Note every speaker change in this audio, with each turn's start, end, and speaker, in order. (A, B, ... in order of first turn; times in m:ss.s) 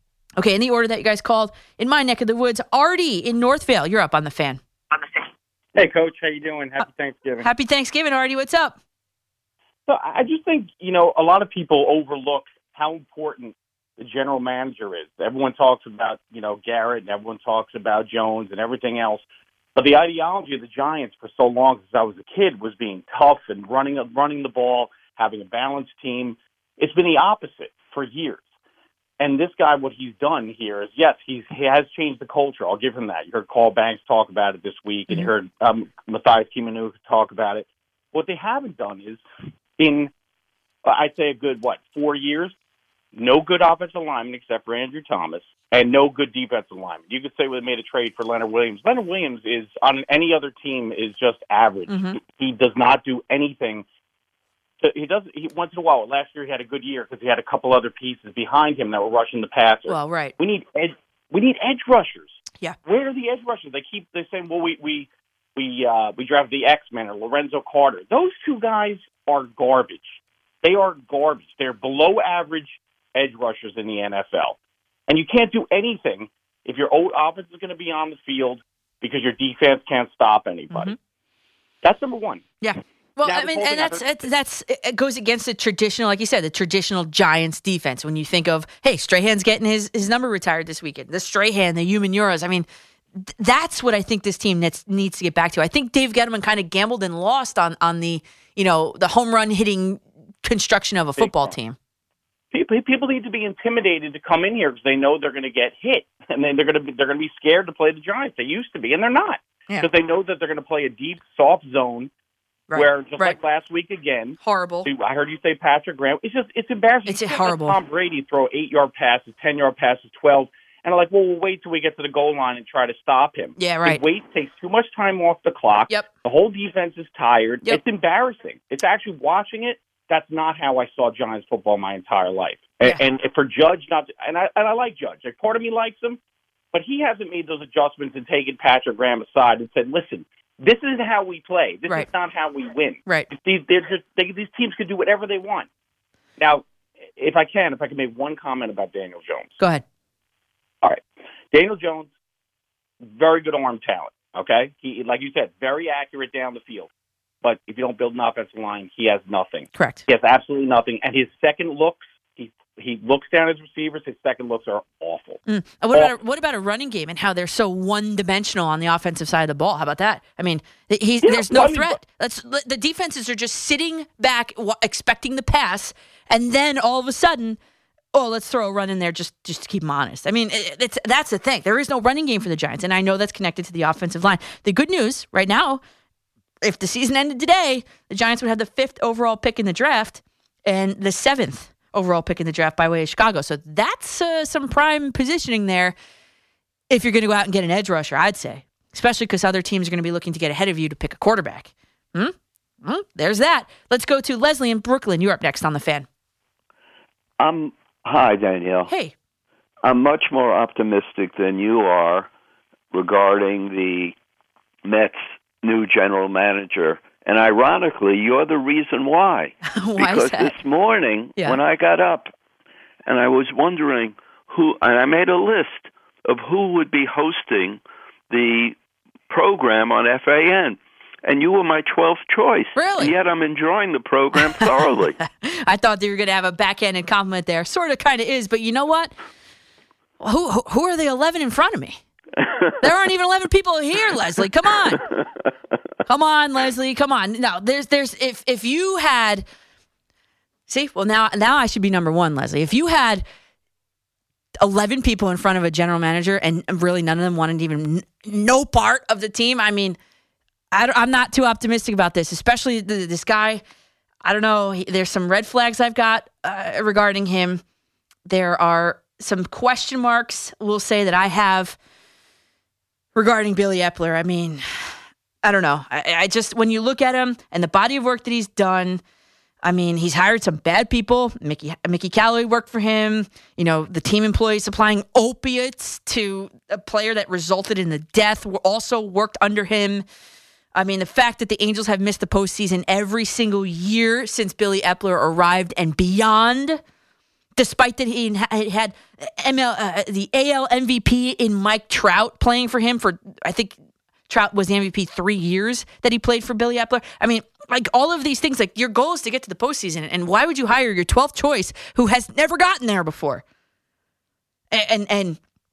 0:00.4-0:04.6 A
0:05.7-0:07.5 B
0:07.4-0:08.8 A
0:09.9-0:19.2 B
0:19.7-0:28.4 B
0:29.2-0:39.2 B
0:39.8-0:40.1 B
0:40.8-0:42.5 B
0:43.1-0:53.8 B
0:51.9-0:52.2 A
0:54.8-1:14.6 B
0:59.9-1:00.3 A
1:15.1-1:21.0 B
1:21.8-1:22.4 B
1:22.6-1:41.8 A
1:23.2-1:24.1 B
1:41.2-1:41.5 B
1:42.5-1:52.1 B
1:52.7-1:53.4 A
1:52.7-2:16.2 B
1:54.4-1:54.9 A
1:57.0-1:57.8 A
2:03.6-2:04.0 A
2:16.7-2:25.7 B
2:26.4-2:26.6 B
2:27.2-2:29.6 B
2:29.6-2:29.8 A
2:30.8-2:32.1 B
2:33.0-2:36.9 B
2:37.4-2:45.4 B
2:39.7-2:40.0 A
2:45.5-2:57.6 A
2:51.2-2:52.0 B
2:58.1-3:05.8 A
3:06.6-3:16.0 A
3:16.9-3:26.1 A
3:27.4-3:28.9 C
3:28.9-3:29.1 A
3:29.8-3:32.3 C
3:32.9-3:34.1 C
3:34.8-3:42.3 C
3:39.7-3:40.6 A
3:43.0-3:48.8 C
3:49.3-3:55.2 C
3:52.7-3:53.1 A
3:55.2-3:59.1 A
4:00.2-4:02.0 A
4:02.8-4:05.0 A
4:06.0-4:09.4 A
4:10.7-4:13.2 A
4:14.6-4:20.0 A
4:20.7-4:23.6 A
4:24.2-4:27.6 A
4:28.3-4:31.8 A
4:33.1-4:34.9 A
4:35.4-4:39.0 A
4:39.6-4:50.0 A
4:50.7-4:56.8 A
4:57.6-5:03.8 A
5:04.3-5:13.4 A
5:14.7-5:15.4 A